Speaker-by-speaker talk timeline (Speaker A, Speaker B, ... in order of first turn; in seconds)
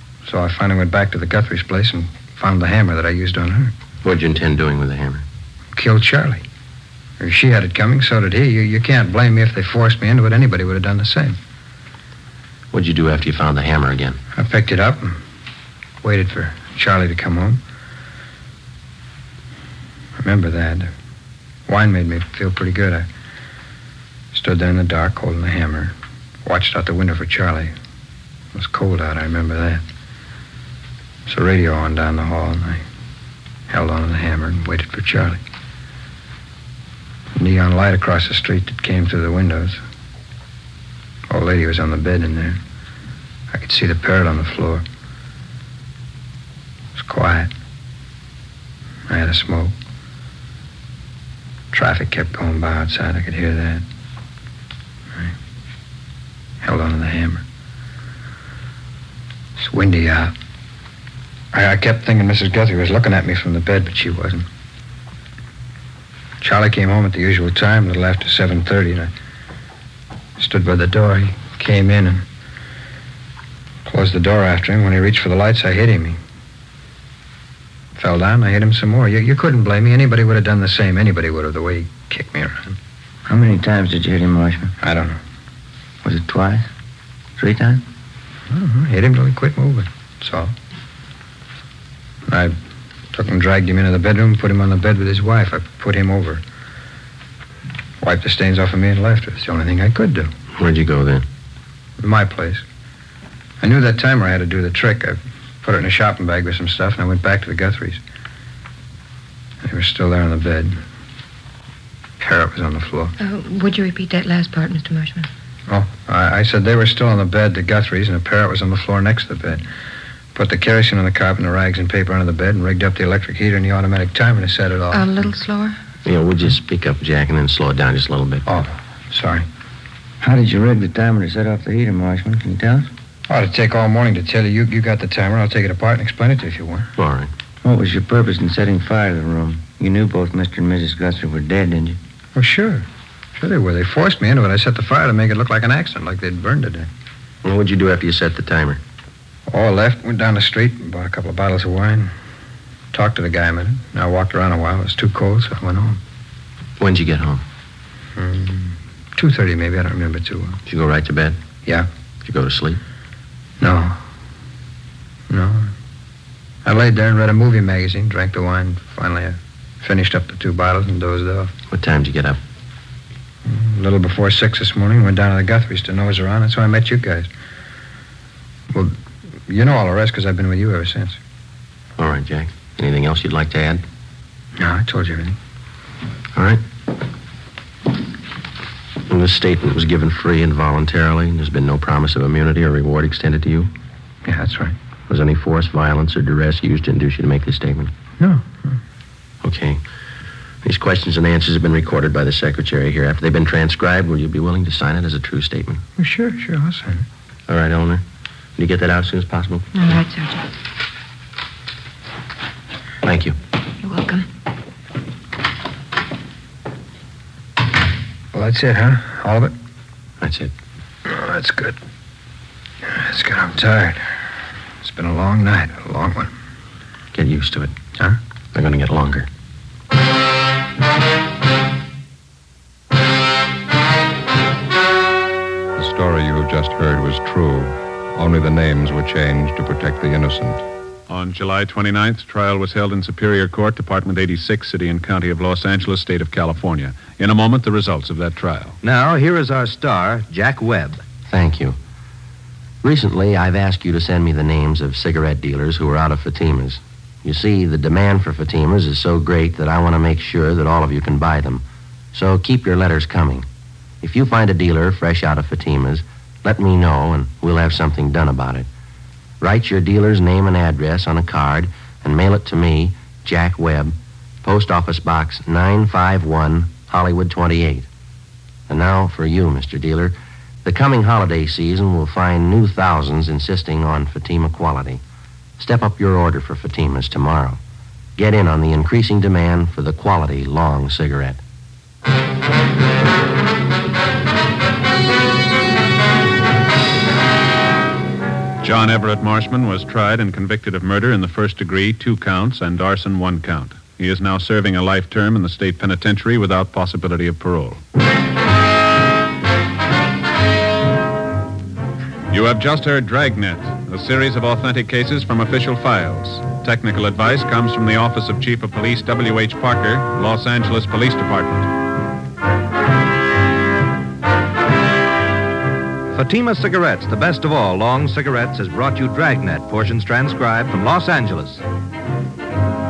Speaker A: 0.2-3.7, 5.7-6.4, 7.2-11.4, 14.3-15.2, 16.0-17.6, 20.2-20.9, 21.7-23.1, 24.3-27.7, 28.5-29.8, 31.3-32.8, 33.7-35.4, 37.4-39.8, 41.3-42.6, 43.5-44.8, 46.9-47.5, 49.1-49.7, 51.7-53.8, 56.6-57.4, 59.6-60.3, 61.5-64.5, 66.4-69.1, 70.4-72.2, 73.8-76.2, 77.9-82.8, 84.8-85.2, 88.5-90.5, 92.3-92.6, 93.1-96.4, 98.0-100.3, 102.0-102.6, 103.6-108.0, 109.6-110.8, 112.2-113.1, 115.7-119.6, 120.3-125.1, 128.5-129.5, 133.3-136.9, 142.3-146.9, 149.5-152.1, 152.9-156.0, 158.2-160.6, 163.6-164.0, 165.3-165.7, 166.6-171.5, 173.4-177.3, 179.5-181.2, 184.6-185.4, 194.2-194.8, 198.2-198.8, 206.0-207.1, 218.3-219.5, 221.0-221.8, 222.8-224.1, 224.8-226.3
Speaker B: 4.0-5.2, 12.7-14.2, 100.5-101.2, 126.0-128.6, 137.0-137.3, 147.4-148.8, 156.8-157.4, 160.7-161.4, 162.2-162.8, 171.7-172.4, 182.0-183.8, 186.3-186.6, 189.1-193.7, 195.1-197.9, 199.4-199.8, 200.6-205.8, 207.5-208.0, 208.6-209.7, 213.0-213.3, 220.2-220.5, 227.1-227.7, 228.5-229.3, 251.3-251.8, 252.8-263.5, 264.0-268.7, 269.4-277.9, 278.7-285.0, 285.6-287.6, 288.2-291.4
Speaker C: 83.3-84.7, 86.0-86.7, 87.4-87.8, 130.2-132.9, 137.6-142.0
Speaker D: 113.2-115.3, 124.9-125.8, 209.7-210.4, 213.8-214.3
Speaker E: 235.8-240.6
Speaker F: 241.1-248.8, 298.6-307.8, 312.3-321.7
Speaker G: 248.8-251.0, 326.1-331.6